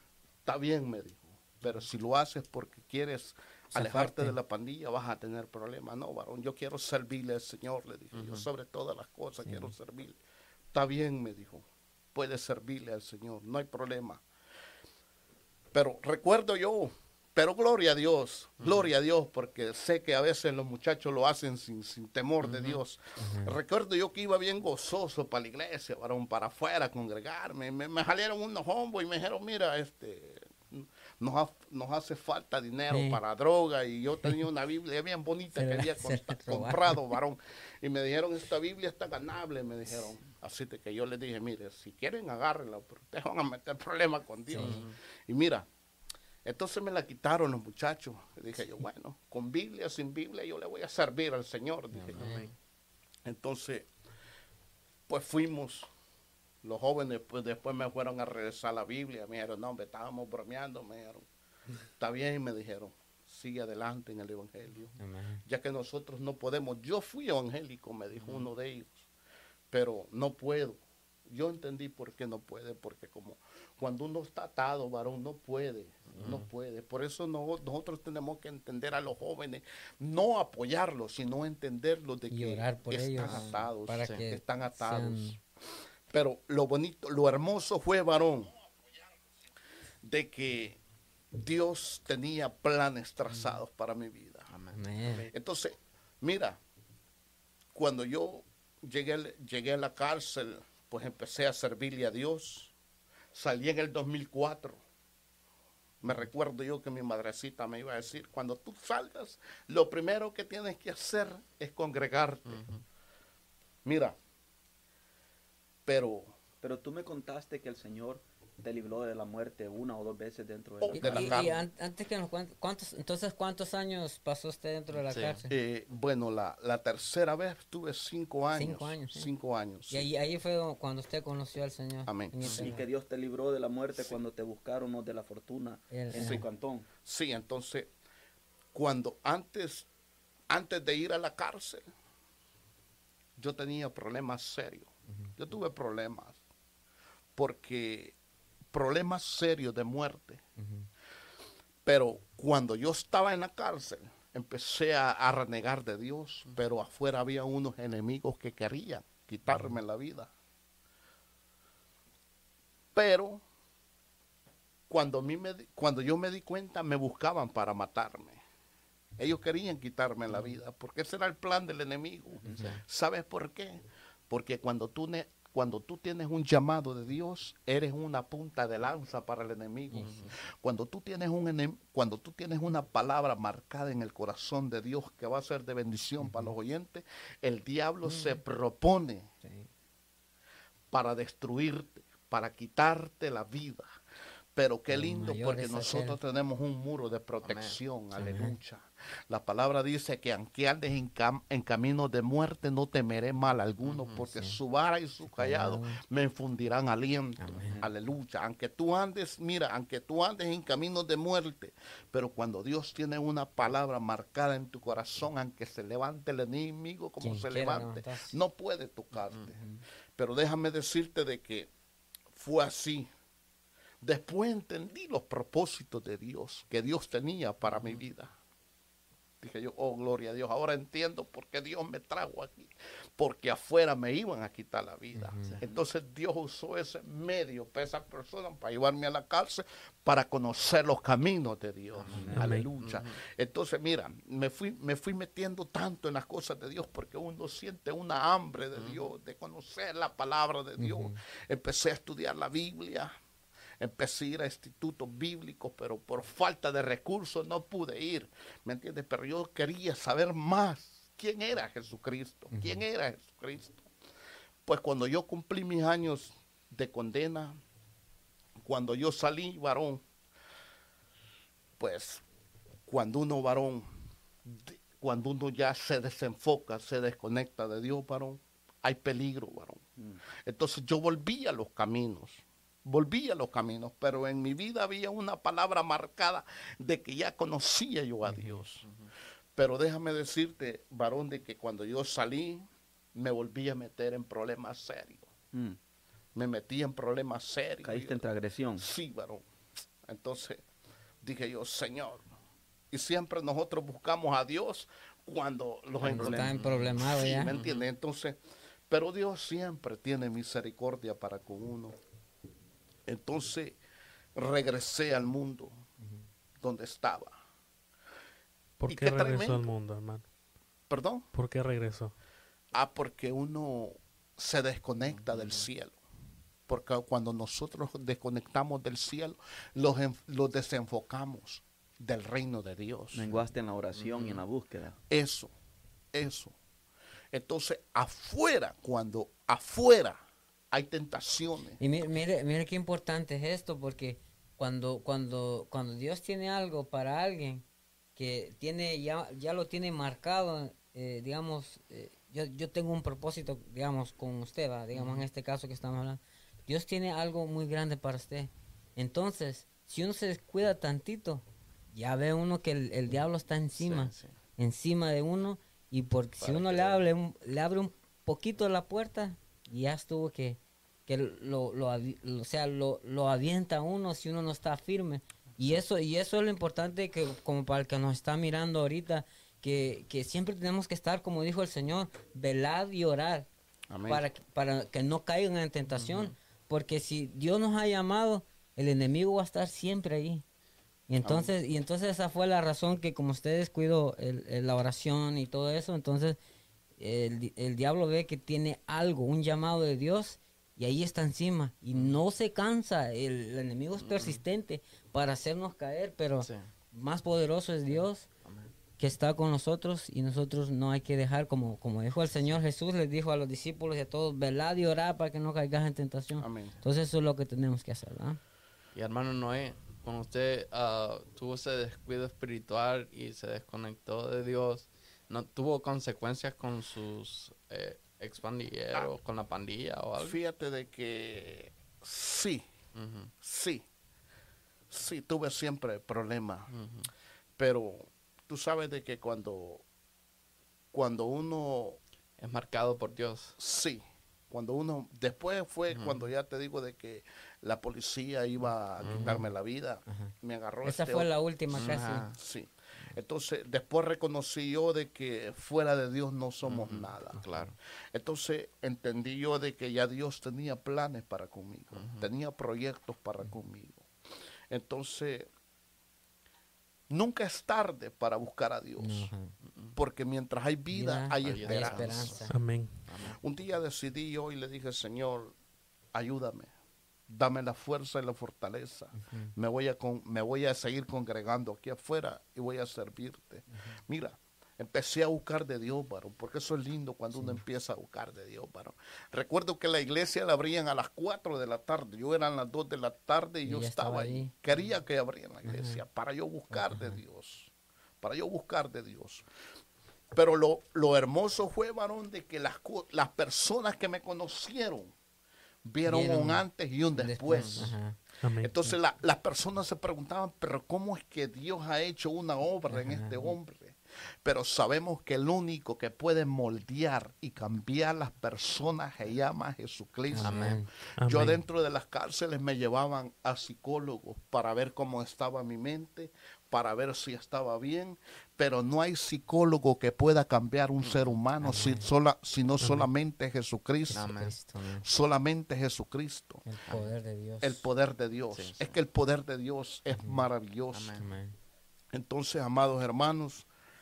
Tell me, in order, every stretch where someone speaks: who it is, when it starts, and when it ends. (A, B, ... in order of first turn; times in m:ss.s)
0:00.4-0:10.2 A
0:03.7-0:04.3 B
0:08.1-0:08.5 C
0:09.4-0:09.7 B
0:10.7-0:14.2 A
0:15.7-0:45.7 A
0:18.6-0:18.9 C
0:22.4-0:22.8 C
0:23.2-0:23.6 B
0:32.9-0:33.2 B
0:35.5-0:37.1 B
0:44.5-0:44.8 B
0:44.6-0:45.0 C
0:46.4-0:52.4 A
0:52.0-0:52.5 C
0:52.2-0:52.5 B
0:53.2-0:53.9 A
0:55.1-0:55.9 A
0:56.6-1:01.2 A
1:02.0-1:09.1 A
1:05.0-1:05.4 B
1:08.2-1:08.4 C
1:09.7-1:25.4 A
1:16.1-1:16.5 C
1:22.3-1:25.4 B
1:23.2-1:24.2 C
1:26.1-1:28.6 A
1:30.0-1:30.8 A
1:31.3-1:34.5 A
1:34.5-1:34.8 C
1:34.7-1:35.3 B
1:35.3-1:36.6 A
1:37.7-1:42.7 A
1:43.3-1:44.8 A
1:46.0-1:52.6 A
1:52.4-1:52.8 C
1:53.8-1:54.2 A
1:55.8-1:56.3 A
1:56.6-2:01.5 D
2:00.8-2:01.6 A
2:00.9-2:05.5 B
2:05.0-2:05.4 C
2:05.5-2:10.1 A
2:08.5-2:09.3 B
2:09.9-2:12.8 B
2:12.0-2:12.6 A
2:12.4-2:12.7 C
2:12.5-2:16.9 D
2:15.9-2:16.4 B
2:16.1-2:16.4 A
2:17.0-2:17.9 A
2:18.7-2:19.9 A
2:20.5-2:21.8 A
2:23.4-2:26.4 A
2:25.1-2:25.3 B
2:27.4-2:28.2 A
2:28.7-2:30.4 A
2:30.6-2:30.9 B
2:31.8-2:40.3 A
2:42.9-2:43.4 A
2:44.9-2:48.4 A
2:49.2-3:09.3 A
2:52.4-2:52.8 B
2:52.5-2:52.8 C
3:00.0-3:00.3 C
3:06.2-3:06.5 B
3:08.0-3:08.4 B
3:09.4-3:09.7 B
3:10.9-3:13.9 A
3:14.6-3:39.6 A
3:14.9-3:16.2 B
3:17.4-3:17.8 C
3:18.1-3:18.6 B
3:23.8-3:24.2 C
3:24.3-3:24.6 B
3:25.2-3:26.0 B
3:27.4-3:27.8 B
3:37.2-3:38.4 B
3:39.5-3:39.8 B
3:40.2-3:41.7 A
3:42.3-3:43.1 A
3:44.0-3:48.3 A
3:47.6-3:48.0 C
3:49.4-4:13.1 A
3:55.1-3:55.6 B
3:55.4-3:55.8 C
4:01.9-4:03.2 C
4:02.3-4:02.7 E
4:08.8-4:09.0 C
4:10.8-4:11.2 B
4:13.8-4:23.9 A
4:22.5-4:22.8 B
4:24.6-4:27.6 A
4:28.6-4:30.0 A
4:31.8-4:32.2 A
4:32.8-4:33.9 A
4:34.4-4:39.8 A
4:40.4-4:48.8 A
4:48.3-4:48.6 B
4:48.8-4:49.1 C
4:49.6-4:55.3 A
4:55.5-4:55.8 D
4:56.3-4:58.2 A
4:57.8-4:58.8 D
4:58.8-4:59.4 A
5:00.0-5:00.6 A
5:01.2-5:02.3 A
5:02.9-5:12.0 A
5:06.0-5:06.5 D
5:06.0-5:07.5 B
5:06.5-5:06.9 C
5:07.5-5:07.8 C
5:13.0-5:13.8 A
5:14.3-5:15.8 A
5:16.6-5:17.3 A
5:18.8-5:20.2 E
5:18.9-5:19.7 A
5:20.9-5:21.3 A
5:21.3-5:22.1 E
5:22.7-5:26.0 A
5:25.1-5:25.7 C
5:26.7-5:33.3 A
5:33.1-5:35.0 D
5:33.9-5:34.4 C
5:35.1-5:35.5 A
5:36.1-5:36.6 A
5:37.3-5:40.2 A
5:40.7-5:41.8 A
5:41.8-5:47.6 B
5:48.2-6:23.5 B
5:54.9-5:55.2 C
6:03.8-6:04.3 C
6:06.4-6:07.0 C
6:23.9-6:24.2 A
6:24.1-6:30.4 B
6:25.9-6:26.3 C
6:31.1-6:36.4 B
6:31.2-6:31.5 A
6:37.0-6:48.2 B
6:41.9-6:42.2 C
6:44.0-6:44.4 C
6:46.4-6:46.7 C
6:47.9-6:48.7 C
6:49.0-6:58.4 B
6:56.4-6:56.7 A
6:58.9-7:10.4 C
7:10.2-7:12.6 A
7:12.9-7:13.3 C
7:13.4-7:13.8 A
7:14.9-7:16.7 A
7:16.7-7:17.1 C
7:17.6-7:19.8 A
7:20.9-7:22.0 A
7:22.4-7:23.5 C
7:23.6-7:37.4 A
7:25.9-7:26.3 C
7:29.0-7:29.4 C
7:29.1-7:29.4 B
7:30.1-7:30.3 B
7:30.8-7:32.3 B
7:31.7-7:32.4 C
7:36.6-7:37.7 C
7:37.4-7:37.7 B
7:38.1-7:44.1 A
7:41.9-7:42.3 C
7:44.7-7:45.5 A
7:47.1-7:49.3 A
7:49.0-7:49.5 B
7:49.7-7:50.0 C
7:50.0-7:52.5 A
7:50.9-7:52.5 B
7:51.4-7:52.4 C
7:52.5-7:53.0 E
7:53.1-7:53.4 C
7:53.4-7:55.6 A
7:56.1-7:56.7 A
7:57.3-8:19.4 A
7:59.1-7:59.5 B
8:07.3-8:07.6 B
8:13.6-8:14.5 B
8:15.6-8:16.0 B
8:16.7-8:17.2 B
8:20.3-8:25.1 A
8:25.8-8:28.0 A
8:26.0-8:28.2 B
8:27.5-8:27.8 C
8:28.4-8:28.8 E
8:28.6-8:54.3 A
8:32.9-8:33.5 B
8:40.3-8:40.9 B
8:40.4-8:40.8 C
8:41.2-8:41.6 E
8:51.0-8:51.4 C
8:51.6-8:52.1 B
8:52.8-8:53.1 E
8:54.1-8:55.1 B
8:54.1-8:54.6 C
8:55.0-8:56.6 A
8:56.6-8:57.8 B
8:57.6-9:01.2 A
8:58.5-8:59.0 C
9:00.1-9:00.5 B
9:00.9-9:01.2 C
9:01.2-9:01.6 B
9:02.1-9:03.7 A